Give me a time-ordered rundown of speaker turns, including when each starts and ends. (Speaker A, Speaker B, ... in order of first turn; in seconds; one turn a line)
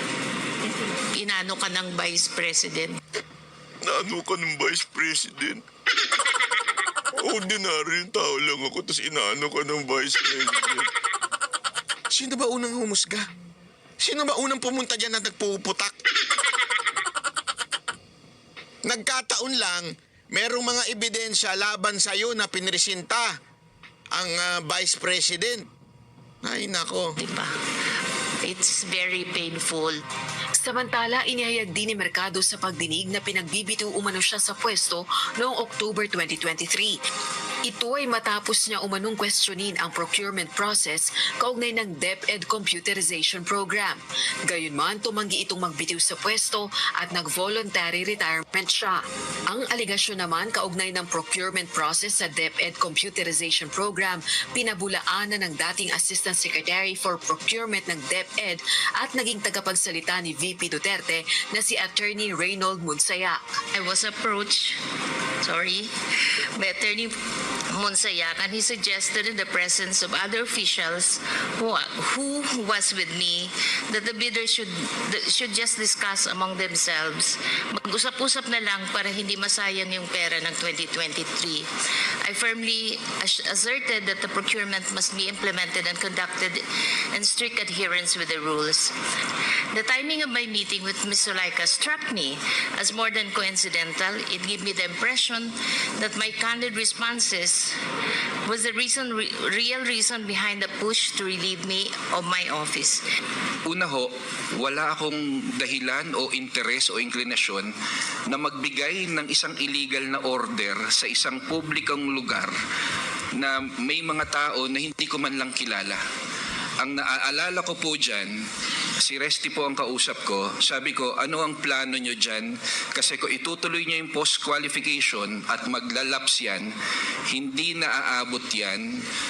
Speaker A: 0.6-3.0
Speaker B: 3.8-5.6
Speaker B: 7.2-10.9
Speaker B: 12.1-13.3
Speaker B: 14.0-15.9
Speaker B: 18.9-23.3
Speaker B: 24.1-25.6
Speaker B: 26.4-27.1
Speaker A: 27.2-27.5
Speaker A: 28.4-30.0
Speaker C: 30.6-36.9
Speaker C: 37.6-63.4
Speaker A: 63.8-64.8
Speaker A: 65.4-67.2
Speaker A: 67.7-81.7
Speaker A: 82.2-88.9
Speaker A: 89.7-97.8
Speaker A: 98.4-103.0
Speaker D: 103.7-107.7
Speaker D: 108.3-112.5
Speaker D: 113.4-116.0
Speaker D: 116.8-118.3
Speaker D: 119.0-126.7
Speaker D: 127.3-128.9